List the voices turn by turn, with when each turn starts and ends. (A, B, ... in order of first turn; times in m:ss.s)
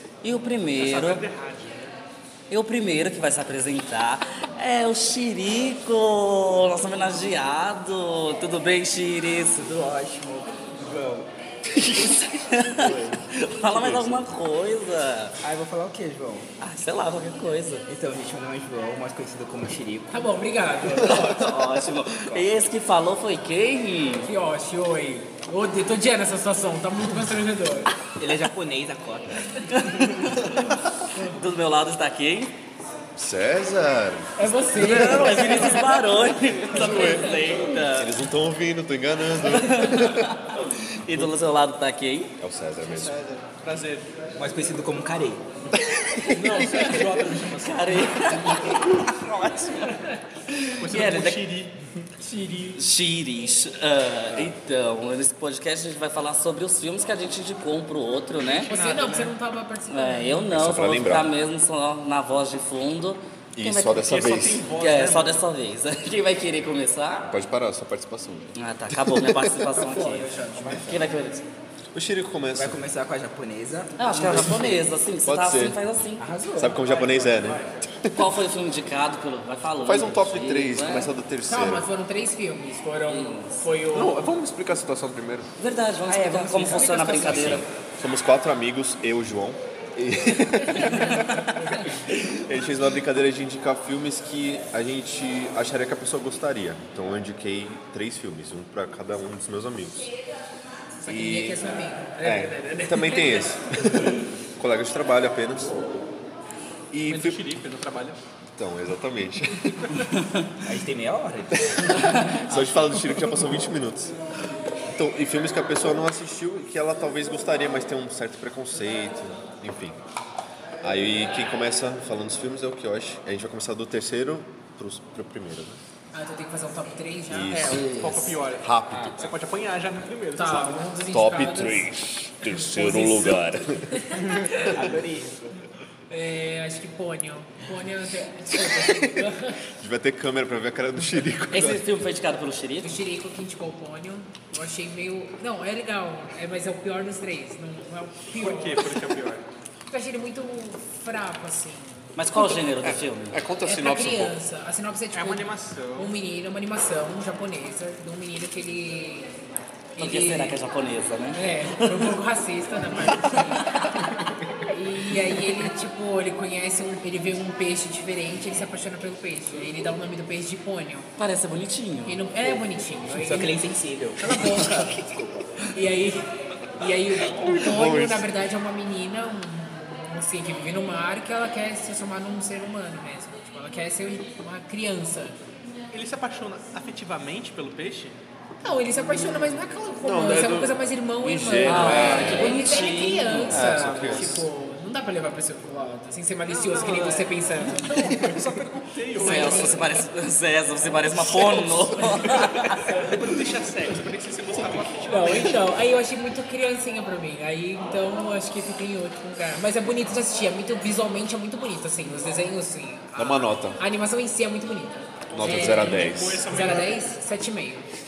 0:00.2-0:01.2 A
0:00.7-0:01.9 B
0:02.5-0:09.7 A
0:09.5-0:11.3 C
0:11.7-0:15.4 A
0:11.8-0:13.2 C
0:13.7-0:14.2 D
0:15.4-0:16.5 C
0:16.6-0:17.8 A
0:17.9-0:20.3 C
0:20.1-0:21.4 E
0:21.0-0:24.3 A
0:21.2-0:22.6 C
0:24.2-0:27.9 E
0:28.2-0:30.6 C
0:29.7-0:32.6 A
0:33.1-0:34.6 D
0:34.4-0:35.9 E
0:34.7-0:38.2 A
0:36.7-0:40.5 D
0:39.5-0:42.3 A
0:42.4-0:43.2 D
0:42.8-0:44.1 B
0:44.4-0:45.4 C
0:45.9-0:46.9 D
0:46.3-0:48.5 B
0:47.5-0:51.5 A
0:50.8-0:51.8 B
0:52.2-0:52.8 E
0:52.7-0:58.7 A
0:58.6-1:00.5 E
0:58.7-0:59.3 B
0:59.9-1:04.1 A
1:00.5-1:01.3 D
1:03.5-1:04.6 D
1:04.0-1:05.4 B
1:04.7-1:07.3 A
1:07.3-1:09.6 D
1:08.6-1:11.5 A
1:09.7-1:11.1 C
1:11.9-1:12.8 D
1:12.5-1:14.9 C
1:14.0-1:16.3 A
1:15.2-1:15.8 D
1:16.2-1:16.8 C
1:16.6-1:18.2 D
1:16.8-1:17.9 B
1:18.1-1:21.1 A
1:19.8-1:21.9 D
1:21.5-1:24.3 E
1:23.0-1:23.6 A
1:23.9-1:25.5 D
1:25.6-1:27.7 A
1:26.1-1:27.6 C
1:27.2-1:40.1 D
1:30.6-1:31.0 E
1:41.0-1:43.6 E
1:41.1-1:45.8 D
1:46.9-1:47.4 D
1:47.1-1:48.2 B
1:48.6-1:49.9 D
1:50.1-1:50.5 A
1:50.6-1:52.2 C
1:51.6-1:54.1 D
1:51.9-1:53.0 A
1:54.9-2:00.0 D
2:00.8-2:05.8 D
2:06.1-2:07.7 E
2:07.3-2:09.3 D
2:07.5-2:10.9 B
2:07.7-2:08.2 A
2:08.9-2:09.3 C
2:10.4-2:11.9 E
2:11.1-2:15.0 D
2:12.4-2:14.7 E
2:14.6-2:15.6 C
2:16.1-2:19.6 E
2:18.5-2:21.8 D
2:21.5-2:23.0 A
2:22.8-2:29.0 E
2:28.4-2:29.5 B
2:29.9-2:32.1 E
2:32.2-2:33.4 A
2:32.3-2:34.3 D
2:33.6-2:39.3 E
2:35.1-2:36.1 B
2:40.0-2:40.6 E
2:40.0-2:42.2 A
2:41.3-2:44.0 E
2:44.6-2:51.1 E
2:51.2-2:52.2 A
2:52.0-2:53.6 E
2:53.1-2:55.5 C
2:54.2-3:05.4 E
2:57.3-2:58.3 D
3:05.9-3:08.2 B
3:08.6-3:18.4 E
3:10.0-3:12.6 D
3:11.6-3:13.7 A
3:13.4-3:14.4 D
3:16.5-3:17.3 B
3:18.0-3:19.9 B
3:19.2-3:19.9 E
3:19.2-3:23.0 A
3:22.2-3:23.1 E
3:22.8-3:25.6 B
3:25.1-3:37.9 E
3:33.2-3:33.8 D
3:35.3-3:37.0 B
3:35.3-3:36.4 D